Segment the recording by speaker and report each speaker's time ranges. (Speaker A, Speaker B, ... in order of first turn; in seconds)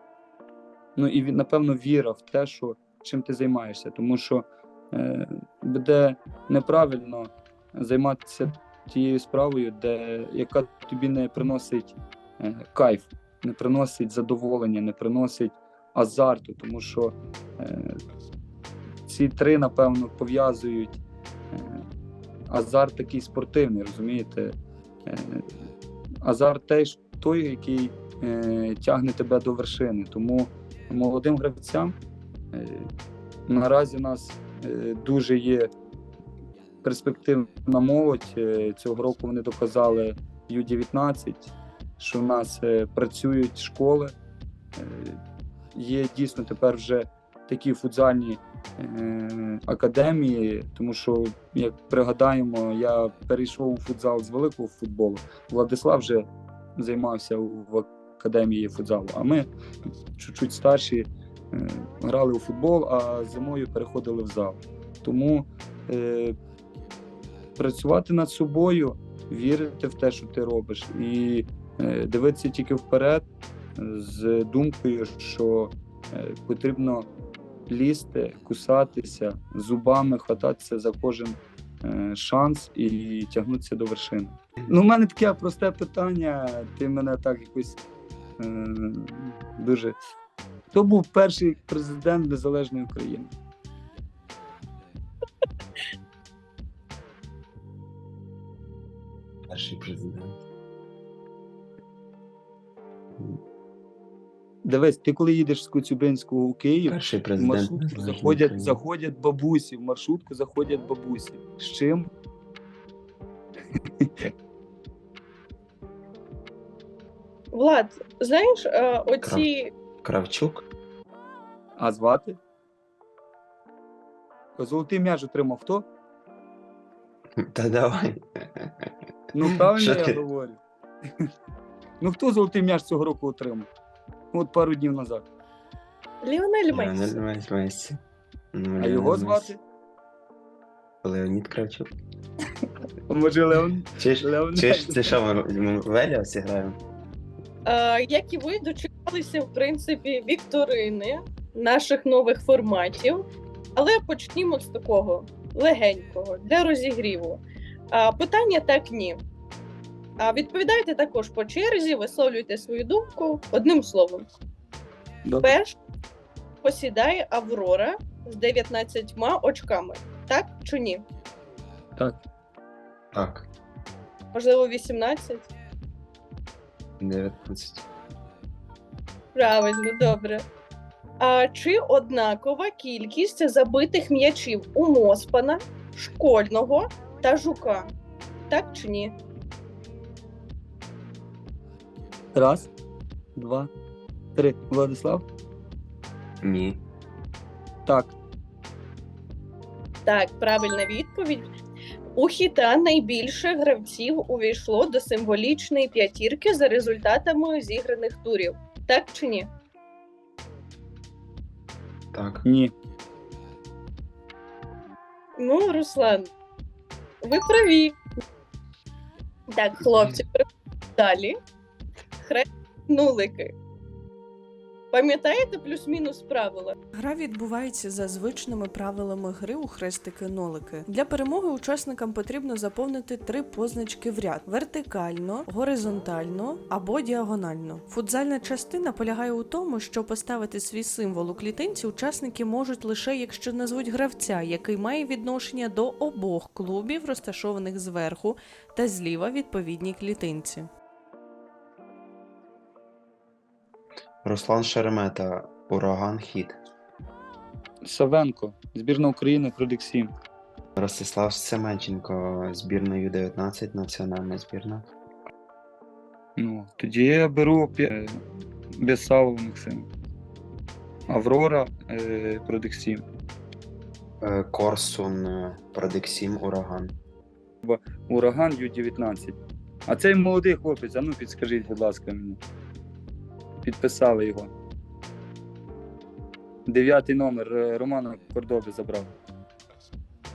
Speaker A: 1.0-18.0, 19.1-21.0, 21.5-21.9, 22.5-25.5, 26.2-32.0, 32.5-32.9, 33.5-35.7, 36.8-44.1, 44.8-45.2, 45.7-59.5, 60.1-66.4, 67.6-77.1, 77.7-87.8, 88.4-90.0, 90.7-93.3, 104.6-112.1, 114.0-114.3, 121.8-122.4, 124.6-125.9, 129.3-130.6, 132.0-133.7, 134.3-135.3, 138.8-139.6, 143.1-145.2, 165.2-165.6, 192.3-192.7, 193.4-193.7, 194.3-195.2, 197.9-198.2, 212.4-212.7, 257.9-260.1, 266.4-269.9, 271.1-273.0, 277.6-279.4, 279.9-282.4, 283.6-284.5, 286.7-289.1
Speaker B: 99.5-100.4, 106.9-108.8, 120.0-120.7, 127.4-128.9, 129.5-130.2, 136.7-138.0, 138.5-139.5, 141.0-141.9, 143.9-146.8, 173.1-173.5, 177.0-177.9, 196.4-196.8, 212.1-212.4, 254.2-256.6, 260.8-264.9, 274.2-276.9
Speaker C: 117.5-119.7, 136.2-137.2, 147.7-153.2, 153.8-159.2, 160.2-164.3, 165.4-165.8, 166.6-171.0, 174.3-175.5, 179.3-180.4, 181.2-187.9, 188.5-189.2, 200.1-201.5, 202.2-209.5, 215.4-216.3, 217.2-218.0, 219.5-220.4, 221.0-221.4, 222.2-223.5, 224.9-226.8
Speaker D: 226.9-250.7